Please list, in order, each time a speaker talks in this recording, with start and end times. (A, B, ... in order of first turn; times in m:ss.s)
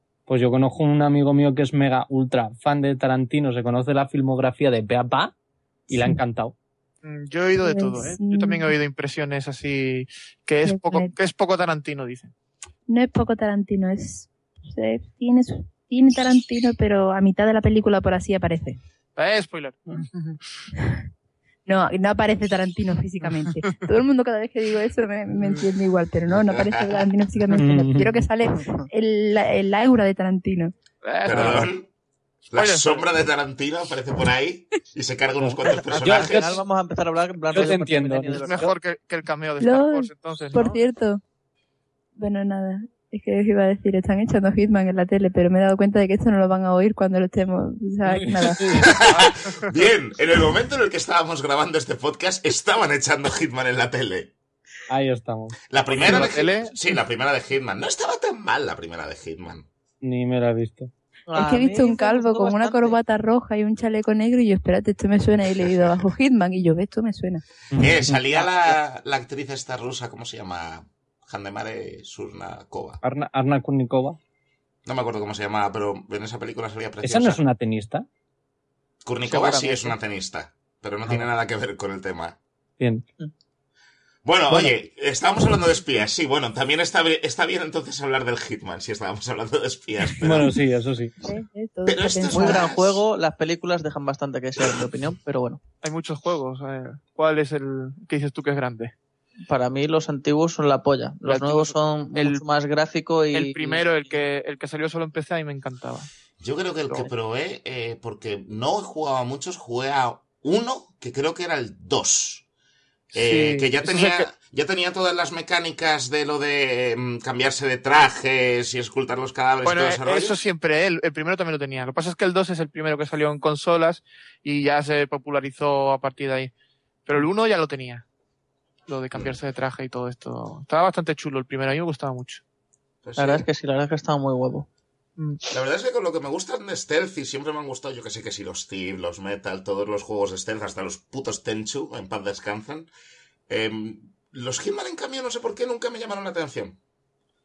0:00.3-0:05.3 A
0:05.9-0:06.6 A
0:07.0-0:12.3 B
0:07.6-0:08.7 C
0:10.6-0:11.1 C
0:12.9-0:18.8 C
0:19.2-0:20.4 B
0:20.8-0:21.0 C
0:21.7-0:30.7 C
0:23.2-0:23.6 B
0:25.4-0:25.7 B
0:26.3-0:27.1 D
0:27.5-0:28.2 A
0:28.6-0:28.9 E
0:31.0-0:31.7 B
0:31.2-0:31.9 D
0:31.3-0:31.7 A
0:32.5-0:36.6 D
0:32.5-0:33.1 B
0:35.4-0:36.6 A
0:35.7-0:38.7 E
0:37.5-0:38.7 A
0:38.4-0:40.8 B
0:39.6-0:41.2 C
0:42.2-0:49.1 C
0:48.1-0:49.0 A
0:48.7-0:54.3 D
0:49.2-0:49.7 B
0:54.9-0:56.3 A
0:55.7-0:59.7 D
0:56.0-0:56.7 B
1:00.0-1:00.9 A
1:01.3-1:03.0 E
1:01.3-1:07.4 C
1:05.6-1:06.0 D
1:07.7-1:08.2 A
1:07.8-1:13.0 D
1:13.0-1:14.2 A
1:14.8-1:17.4 D
1:17.0-1:18.1 A
1:19.0-1:22.4 D
1:19.3-1:19.9 E
1:22.8-1:23.0 A
1:24.2-1:30.6 D
1:30.2-1:31.2 A
1:31.2-1:32.7 C
1:31.9-1:33.0 D
1:32.3-1:35.6 E
1:34.6-1:34.8 D
1:35.8-1:38.9 B
1:39.5-1:44.0 E
1:41.2-1:42.4 B
1:43.3-1:46.1 B
1:46.4-1:52.4 D
1:53.1-1:54.3 B
1:53.1-2:00.4 D
1:59.6-2:06.5 B
2:07.1-2:08.1 B
2:08.9-2:12.4 B
2:09.1-2:09.4 D
2:13.0-2:13.4 D
2:13.2-2:14.7 E
2:15.5-2:22.9 D
2:23.5-2:26.8 D